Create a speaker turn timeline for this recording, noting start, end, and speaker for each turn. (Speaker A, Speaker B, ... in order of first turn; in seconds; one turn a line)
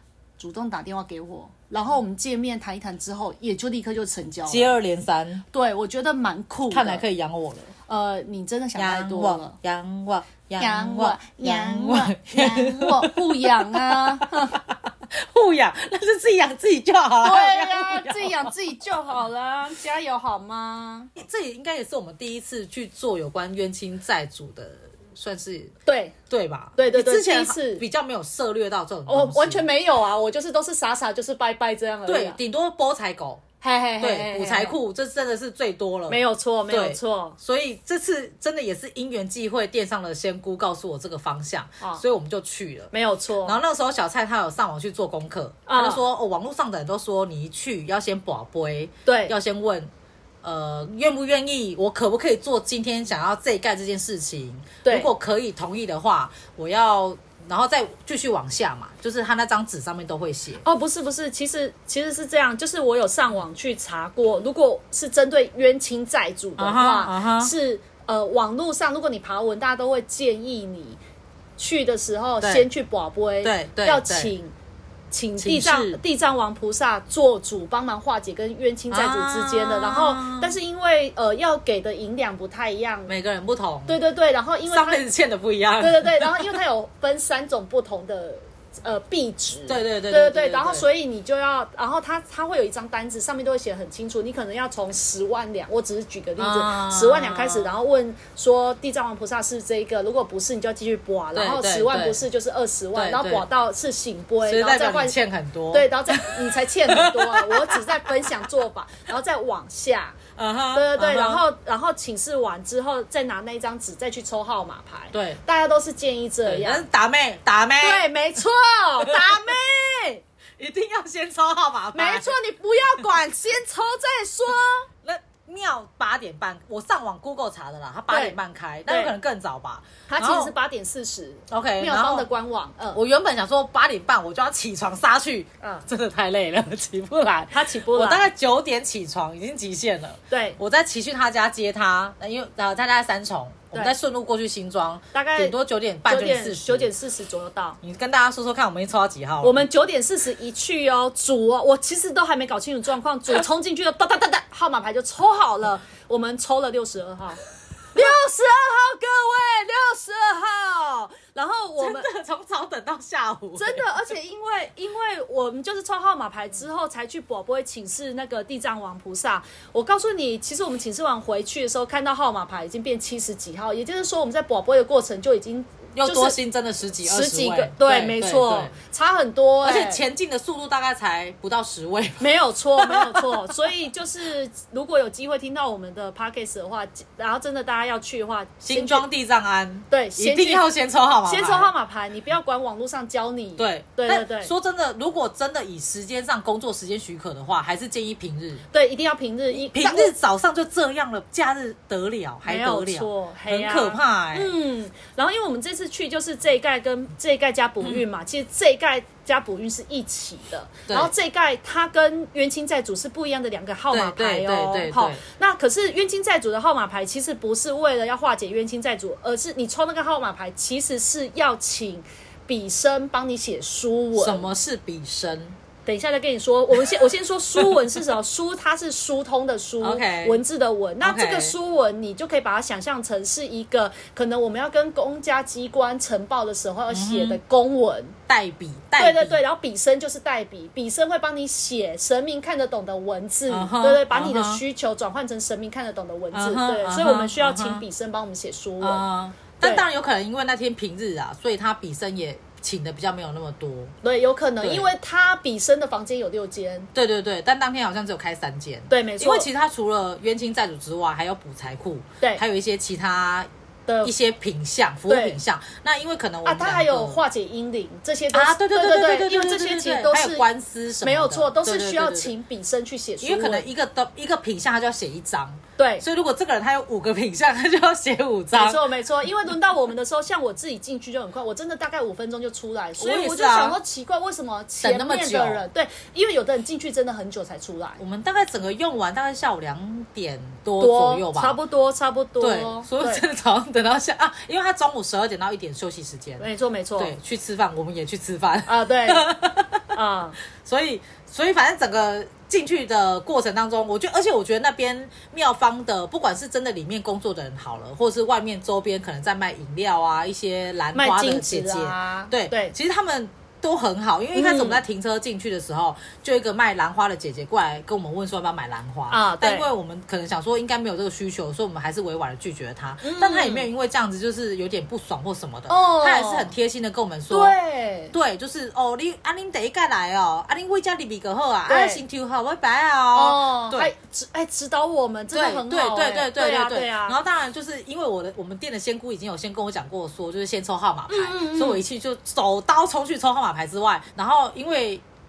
Speaker A: 0.4-4.7
Speaker B: 4.5-5.4
Speaker A: 5.5-7.0
Speaker B: 6.7-7.7
Speaker A: 7.9-9.6
Speaker B: 8.7-18.5
Speaker A: 10.6-14.6
Speaker A: 17.2-21.1
Speaker B: 21.1-25.7
Speaker A: 25.9-26.1
Speaker B: 26.3-29.6
Speaker A: 26.8-27.8
Speaker A: 29.1-32.4
Speaker B: 32.1-33.4
Speaker A: 33.6-34.8
Speaker B: 34.0-42.9
Speaker A: 36.1-37.4
Speaker A: 42.9-43.6
Speaker B: 43.4-49.9
Speaker A: 45.7-46.0
Speaker A: 49.0-49.3
Speaker B: 50.4-60.6
Speaker A: 54.8-55.1
Speaker A: 60.6-71.0
Speaker B: 66.6-67.5
Speaker A: 71.6-74.5
Speaker B: 72.4-72.7
Speaker B: 73.4-74.3
Speaker A: 75.1-83.1
Speaker B: 75.4-76.0
Speaker B: 78.9-80.5
Speaker B: 83.1-84.0
Speaker A: 83.9-85.0
Speaker B: 84.7-86.5
Speaker A: 85.8-105.2
Speaker B: 89.7-90.8
Speaker B: 96.4-97.7
Speaker B: 101.3-102.2
Speaker B: 102.9-103.4
Speaker B: 104.4-106.3
Speaker A: 105.7-110.2
Speaker B: 106.9-108.2
Speaker B: 110.3-111.4
Speaker A: 110.7-116.8
Speaker B: 115.1-115.4
Speaker B: 116.5-118.0
Speaker A: 117.8-120.2
Speaker B: 120.6-122.3
Speaker A: 121.9-124.9
Speaker B: 125.0-130.5
Speaker A: 128.1-129.1
Speaker A: 130.1-133.0
Speaker B: 131.5-132.3
Speaker B: 132.9-146.9
Speaker A: 135.6-135.9
Speaker A: 137.5-138.3
Speaker A: 140.3-140.6
Speaker A: 145.1-145.5
Speaker A: 146.1-147.8
Speaker B: 147.8-149.6
Speaker A: 149.4-157.4
Speaker A: 157.9-162.1
Speaker B: 161.8-163.8
Speaker A: 163.6-176.4
Speaker B: 175.9-178.7
Speaker A: 177.0-180.0
Speaker B: 179.6-183.4
Speaker A: 182.2-189.0
Speaker B: 188.6-191.7
Speaker A: 189.9-190.7
Speaker A: 191.2-194.5
Speaker B: 193.6-198.6
Speaker A: 198.7-200.1
Speaker B: 199.5-204.5
Speaker A: 202.4-224.5
Speaker B: 210.9-211.1
Speaker B: 213.9-215.2
Speaker B: 224.2-225.6
Speaker A: 225.8-238.1
Speaker B: 229.8-230.4
Speaker B: 231.0-231.5
Speaker B: 236.9-237.4
Speaker B: 238.3-239.4
Speaker A: 239.0-249.0
Speaker B: 243.5-244.6
Speaker B: 246.3-247.8
Speaker B: 248.8-253.9
Speaker A: 254.0-256.9
Speaker B: 254.6-254.9
Speaker B: 256.9-263.5
Speaker A: 258.9-259.5
Speaker A: 263.9-264.1
Speaker B: 264.0-267.2
Speaker A: 265.1-265.4
Speaker A: 266.4-270.4
Speaker B: 268.3-272.3
Speaker A: 271.0-273.7
Speaker B: 273.2-278.8
Speaker A: 275.8-276.0
Speaker A: 278.5-288.0
Speaker B: 283.0-283.8
Speaker B: 284.8-285.6
Speaker B: 288.0-291.6
Speaker A: 290.8-293.2
Speaker B: 292.4-296.4
Speaker A: 296.4-297.1
Speaker B: 297.0-299.9
Speaker A: 298.7-299.3
Speaker A: 299.9-300.4
Speaker B: 300.6-327.5
Speaker A: 310.9-312.7
Speaker A: 314.3-314.8
Speaker A: 319.1-319.7
Speaker A: 323.0-323.7
Speaker A: 325.7-326.5
Speaker A: 327.3-328.1
Speaker B: 328.1-333.9
Speaker A: 331.7-332.0
Speaker A: 333.1-337.2
Speaker B: 335.3-345.0
Speaker A: 341.1-341.8